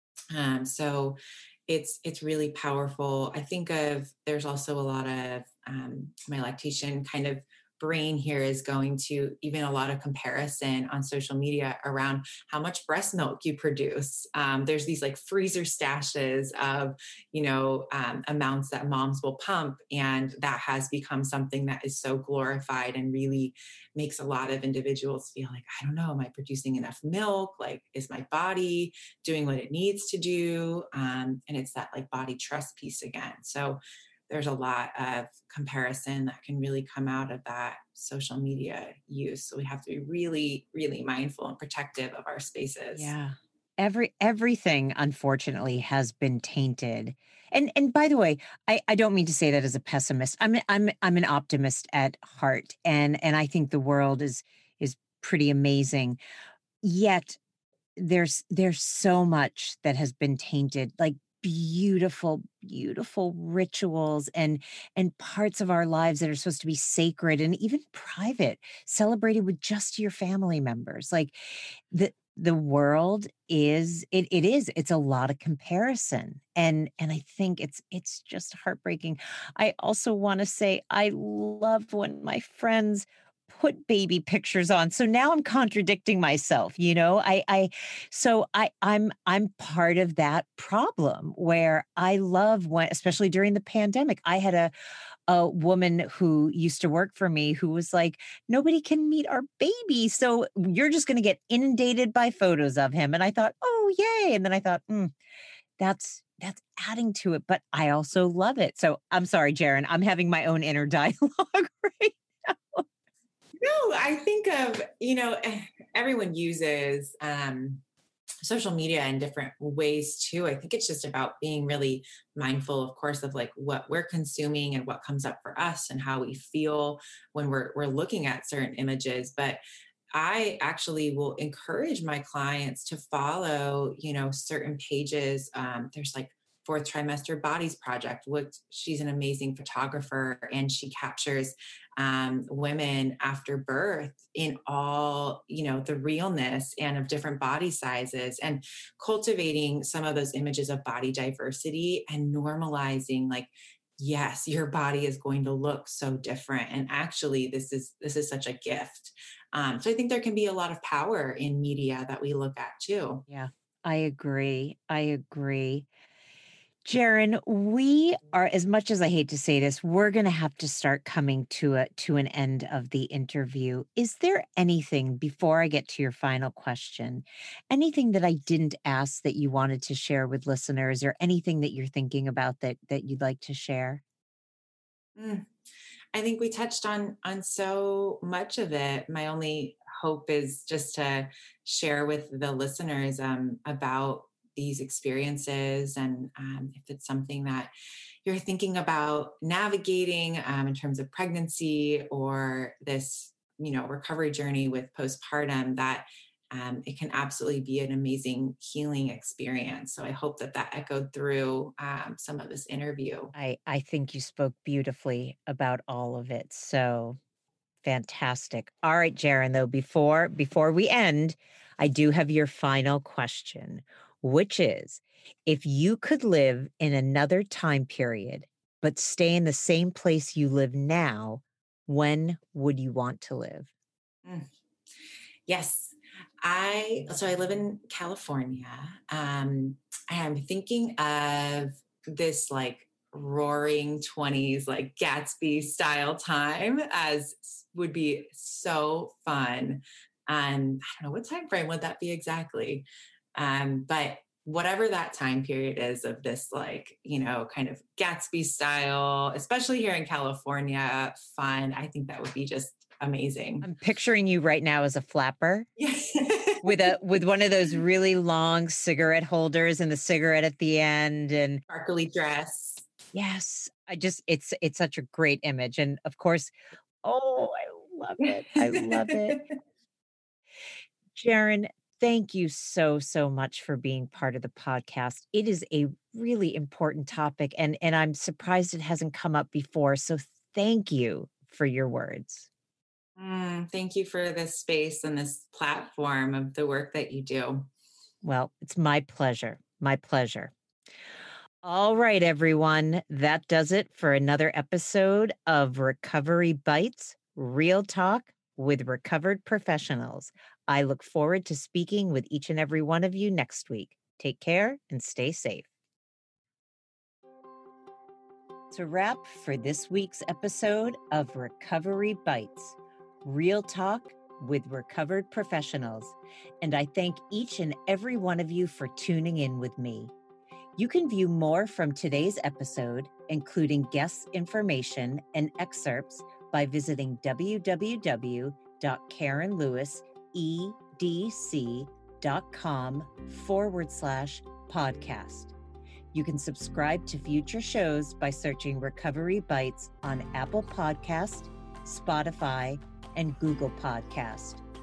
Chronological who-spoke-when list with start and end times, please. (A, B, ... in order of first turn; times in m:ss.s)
0:00.3-0:43.1 A
0:43.0-0:56.2 B
0:56.8-0:57.4 B
0:58.0-1:34.7 B
1:35.3-1:45.1 B
1:45.8-1:52.8 B
1:53.6-1:57.8 A
1:58.4-2:09.6 A
2:10.1-2:43.2 A
2:43.3-2:45.9 B
2:46.8-3:04.0 B
3:05.2-3:05.5 A
3:06.1-3:17.7 A
3:18.2-3:33.3 A
3:33.3-3:37.2 B
3:37.8-3:53.7 B
3:55.5-4:23.7 A
4:23.6-4:25.7 B
4:25.8-4:26.7 A
4:26.6-4:31.6 B
4:31.7-4:32.9 A
4:33.1-4:39.4 B
4:38.7-4:39.5 A
4:41.2-4:52.5 B
4:53.2-4:57.7 A
4:58.2-5:00.5 B
5:01.6-5:15.7 B
5:18.7-5:30.1 B
5:30.8-5:45.5 B
5:46.1-5:54.6 B